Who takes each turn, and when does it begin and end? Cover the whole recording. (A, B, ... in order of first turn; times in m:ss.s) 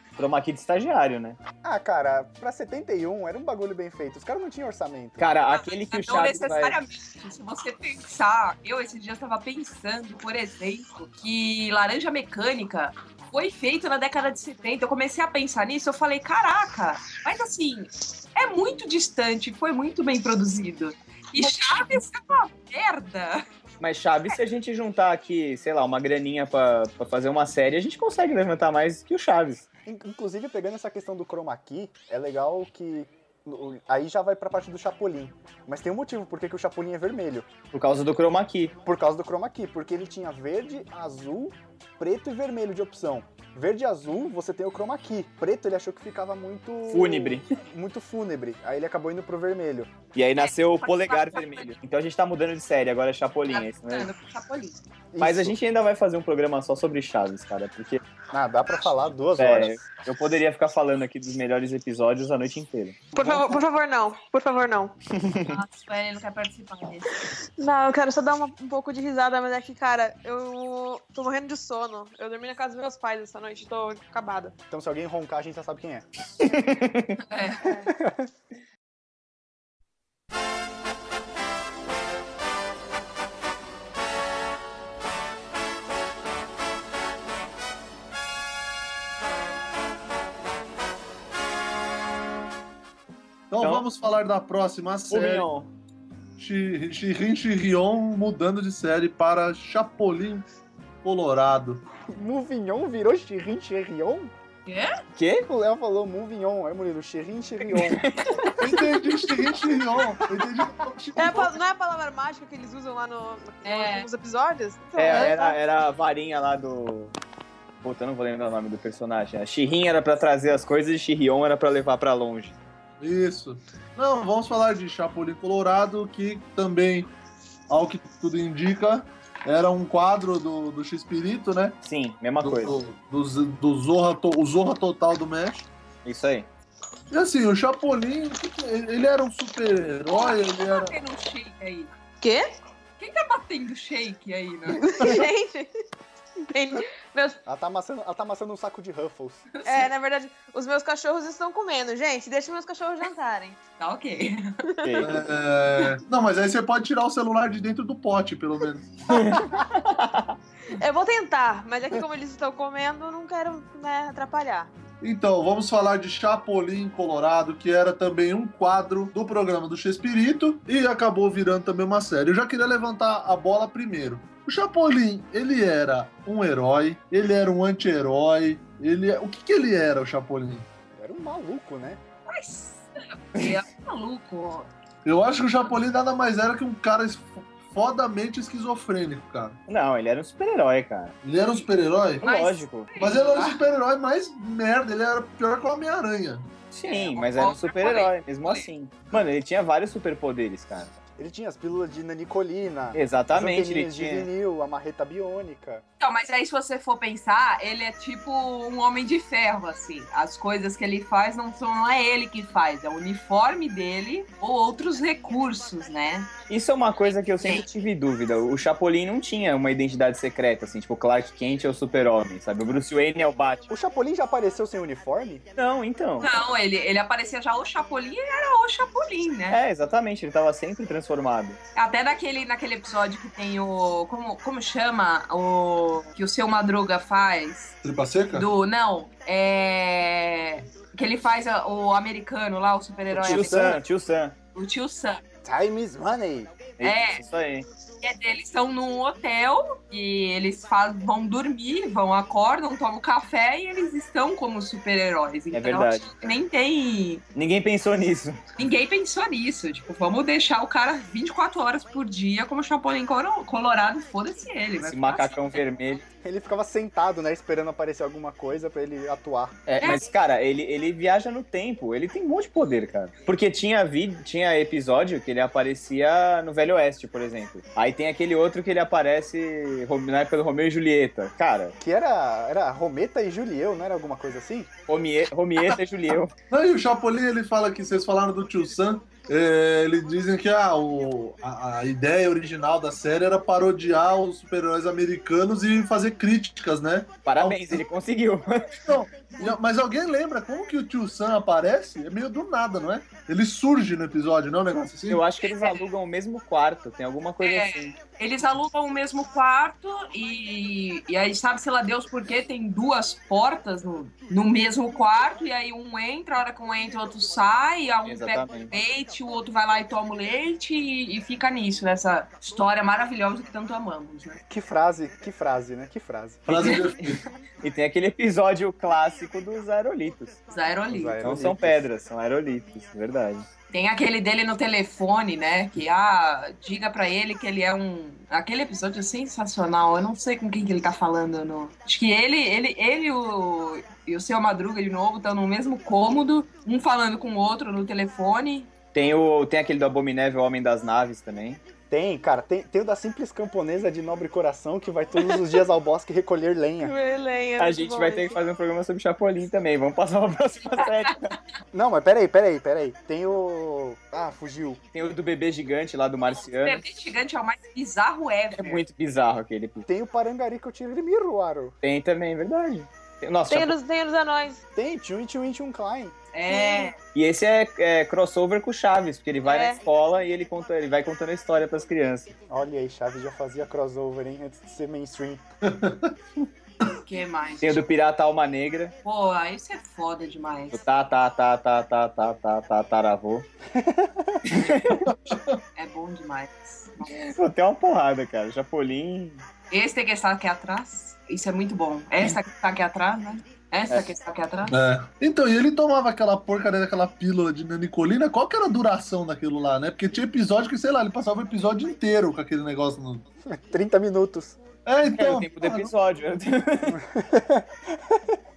0:00.2-0:01.4 A
0:01.6-0:05.3 B
0:05.2-0:06.8 A
0:05.5-0:23.4 C
0:23.8-0:29.6 A
0:29.8-0:37.5 B
0:37.7-0:38.7 A
0:38.8-0:49.9 B
0:46.9-0:47.5 A
0:50.1-0:54.1 A
0:50.4-0:51.7 C
0:53.5-0:54.8 C
0:55.1-0:55.6 B
0:55.2-0:58.0 A
0:58.3-0:59.8 B
0:59.4-1:03.3 A
1:03.1-1:04.9 D
1:05.1-1:05.6 A
1:05.4-1:07.1 C
1:07.6-1:14.5 D
1:14.7-1:16.0 B
1:16.4-1:17.2 A
1:17.2-1:17.8 C
1:17.6-1:17.9 D
1:17.8-1:18.3 B
1:33.5-1:35.5 E
1:33.6-1:33.9 A
1:35.1-1:35.7 A
1:36.4-1:40.4 E
1:41.0-1:41.8 E
1:42.1-1:44.3 B
1:44.6-1:45.0 C
1:45.2-1:45.5 A
1:45.4-1:48.5 B
1:47.7-1:48.7 A
1:48.6-1:51.5 E
1:51.2-1:55.6 D
1:53.6-1:54.1 C
1:55.0-1:57.1 A
1:57.8-2:02.6 A
2:03.0-2:07.1 E
2:07.7-2:11.8 E
2:11.8-2:12.8 A
2:12.4-2:15.7 E
2:16.0-2:16.5 A
2:17.1-2:20.9 E
2:20.1-2:21.9 C
2:22.2-2:22.5 D
2:23.0-2:24.9 C
2:24.7-2:25.7 D
2:26.5-2:27.4 D
2:27.4-2:29.4 B
2:29.5-2:29.9 C
2:29.6-2:33.6 D
2:33.8-2:34.6 C
2:34.7-2:35.0 D
2:34.8-2:35.3 A
2:35.0-2:39.4 E
2:39.1-2:40.4 A
2:40.7-2:44.7 D
2:45.0-3:00.7 E
3:00.9-3:02.0 B
3:02.3-3:04.7 C
3:05.0-3:09.6 E
3:09.7-3:11.2 A
3:11.2-3:12.2 E
3:12.2-3:12.9 A
3:12.2-3:13.6 C
3:13.0-3:16.5 E
3:16.7-3:20.9 A
3:16.8-3:18.6 C
3:21.2-3:25.8 B
3:22.9-3:24.3 A
3:26.0-3:36.3 C
3:36.5-3:43.7 A
3:43.7-3:45.4 B
3:45.6-3:46.4 A
3:46.2-3:49.6 C
3:49.5-3:51.6 A
3:51.8-3:57.7 C
3:57.8-3:58.5 E
3:58.3-4:03.8 C
4:03.1-4:03.8 B
4:03.2-4:04.3 A
4:04.5-4:05.2 C
4:05.4-4:06.6 B
4:06.8-4:07.7 A
4:06.8-4:07.2 C
4:08.0-4:17.2 C
4:15.5-4:16.2 A
4:17.3-4:18.4 A
4:18.6-4:25.6 C
4:24.8-4:26.0 A
4:26.2-4:29.6 B
4:29.7-4:41.8 A
4:29.8-4:30.0 C
4:41.8-4:44.7 B
4:44.9-4:46.3 A
4:46.5-4:57.8 E
4:57.2-4:58.9 A
4:58.8-5:05.2 E
5:05.1-5:07.9 A
5:05.4-5:05.8 C
5:07.4-5:24.4 C
5:18.0-5:18.7 A
5:24.5-5:26.6 B
5:26.5-5:27.2 E
5:26.8-5:30.4 A
5:30.5-5:31.2 C
5:30.9-5:31.8 B
5:31.2-5:33.5 A
5:33.7-5:48.7 C
5:48.9-5:51.6 A
5:51.9-5:56.9 B
5:56.8-5:58.4 D
5:57.6-6:01.4 A
6:01.7-6:04.8 B
6:04.9-6:06.8 A
6:06.4-6:08.8 C
6:08.5-6:09.8 A
6:09.8-6:11.7 B
6:11.8-6:13.8 A
6:13.5-6:14.6 D
6:14.7-6:16.1 B
6:16.3-6:16.9 C
6:16.5-6:16.9 D
6:17.1-6:22.3 A
6:19.4-6:19.8 D
6:22.5-6:25.4 B
6:25.6-6:26.1 E
6:26.9-6:27.8 C
6:27.6-6:28.9 A
6:29.0-6:30.8 C
6:30.7-6:33.4 A
6:33.7-6:34.4 B
6:34.4-6:35.1 A
6:35.0-6:35.6 E
6:35.8-6:37.2 C
6:37.1-6:39.4 A
6:39.7-6:44.7 C
6:44.7-6:53.2 E
6:53.4-6:54.6 B
6:54.8-6:55.9 E
6:55.2-6:57.0 A
6:56.9-6:58.4 B